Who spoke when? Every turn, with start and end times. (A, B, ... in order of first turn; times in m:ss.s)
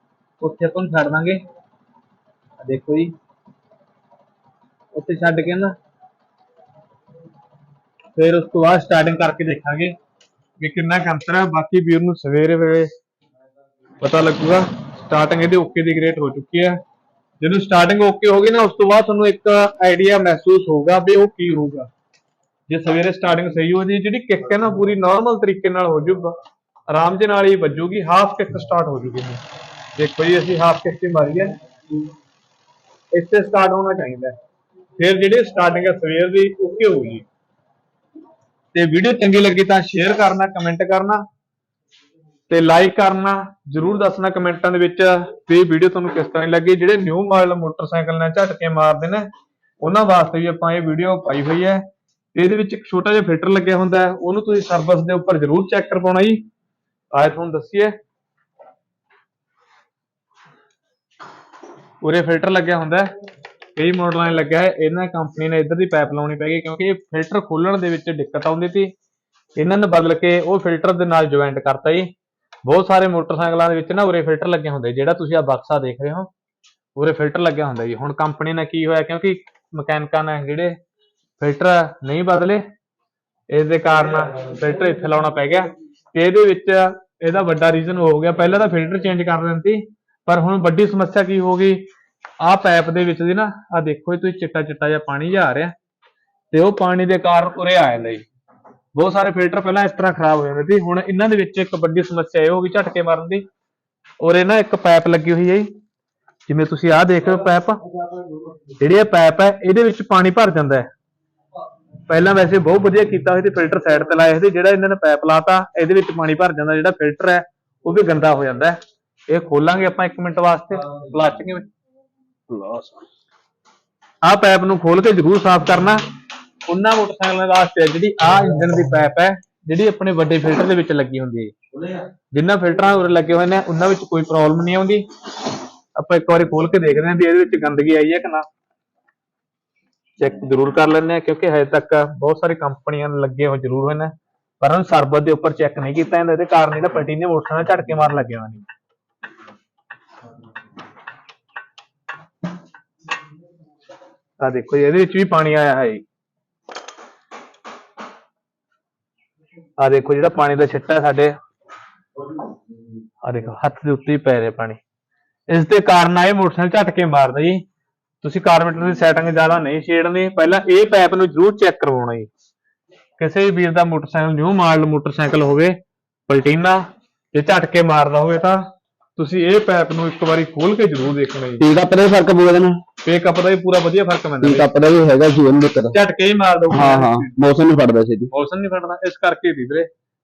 0:00.4-0:01.4 A
0:02.6-0:03.1 A
0:04.9-0:05.8 A
0:08.2-0:10.0 A
0:10.6-0:12.9 A
0:14.0-0:16.8 A
0:17.4-0:21.9 A
0:22.7-0:26.4 A
0:26.9-0:29.4 A
0:30.0-0:31.5 A
0:33.1-0:34.3 A
0:35.0-0:37.3 A
0:38.7-0:41.2 A
0:42.5-0:49.3 A
0:49.8-0:51.8 A
0:52.4-0:56.4 A
0:57.1-0:57.9 A
1:02.0-1:03.1 A
1:03.8-1:08.9 A
1:09.6-1:12.1 A
1:12.7-1:16.3 A
1:17.0-1:20.8 A
1:21.4-1:22.6 A
1:23.5-1:31.9 A
1:32.4-1:35.7 A
1:36.5-1:38.2 A
1:39.0-1:43.4 A
1:44.2-1:45.7 A
1:46.5-1:47.8 A
1:48.8-1:50.9 A
1:52.1-1:58.8 A
1:59.3-2:01.7 A
2:02.5-2:03.0 B
2:04.2-2:06.0 A
2:06.7-2:11.6 A
2:12.3-2:15.1 A
2:16.0-2:18.5 A
2:20.2-2:28.7 A
2:34.4-2:36.0 A
2:39.8-2:41.4 A
2:43.2-2:44.8 A
2:45.5-2:47.6 A
2:48.2-2:52.3 A
2:53.2-2:55.8 A
2:56.3-2:58.6 A
2:59.2-3:01.6 A
3:01.6-3:02.8 B
3:03.0-3:04.7 A
3:04.4-3:06.0 B
3:05.9-3:07.4 A
3:06.7-3:08.3 B
3:08.3-3:09.9 A